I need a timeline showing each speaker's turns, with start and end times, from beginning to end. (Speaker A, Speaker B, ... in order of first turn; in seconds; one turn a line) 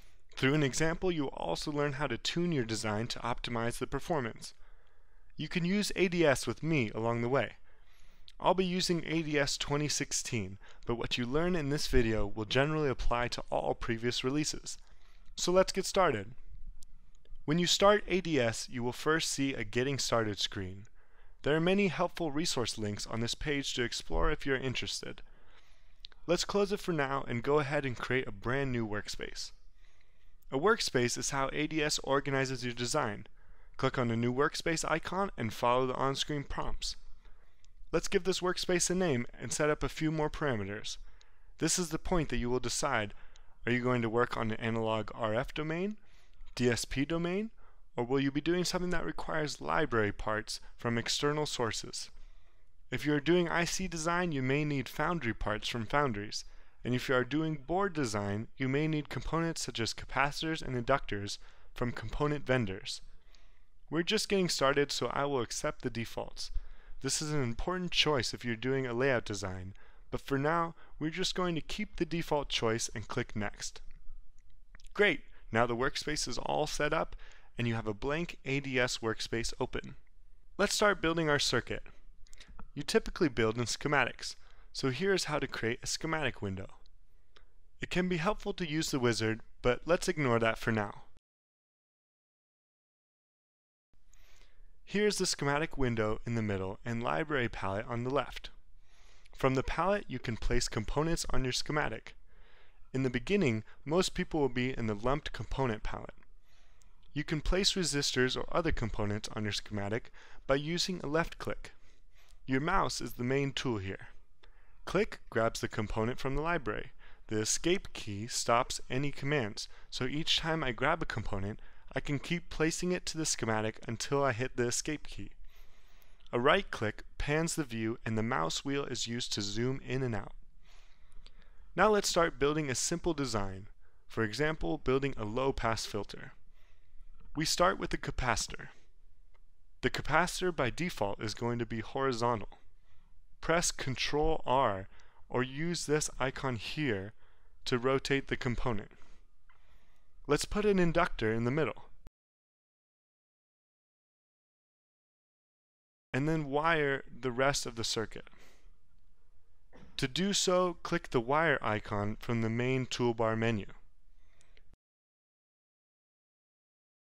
Speaker A: 0.3-4.5
Speaker A: 5.4-7.6
Speaker A: 8.4-14.8
Speaker A: 15.4-16.4
Speaker A: 17.5-20.9
Speaker A: 21.4-25.2
Speaker A: 26.3-29.5
Speaker A: 30.5-37.0
Speaker A: 37.9-41.0
Speaker A: 41.6-46.0
Speaker A: 46.5-52.1
Speaker A: 52.9-63.0
Speaker A: 63.9-73.8
Speaker A: 74.9-80.0
Speaker A: 80.6-81.9
Speaker A: 82.7-86.8
Speaker A: 87.8-91.1
Speaker A: 94.9-98.5
Speaker A: 99.3-102.2
Speaker A: 102.9-106.2
Speaker A: 107.1-111.8
Speaker A: 112.5-114.1
Speaker A: 114.8-125.4
Speaker A: 126.3-130.4
Speaker A: 131.8-136.3
Speaker A: 137.3-138.7
Speaker A: 139.8-142.6
Speaker A: 143.4-148.9
Speaker A: 150.3-151.9
Speaker A: 156.1-158.3
Speaker A: 160.0-163.8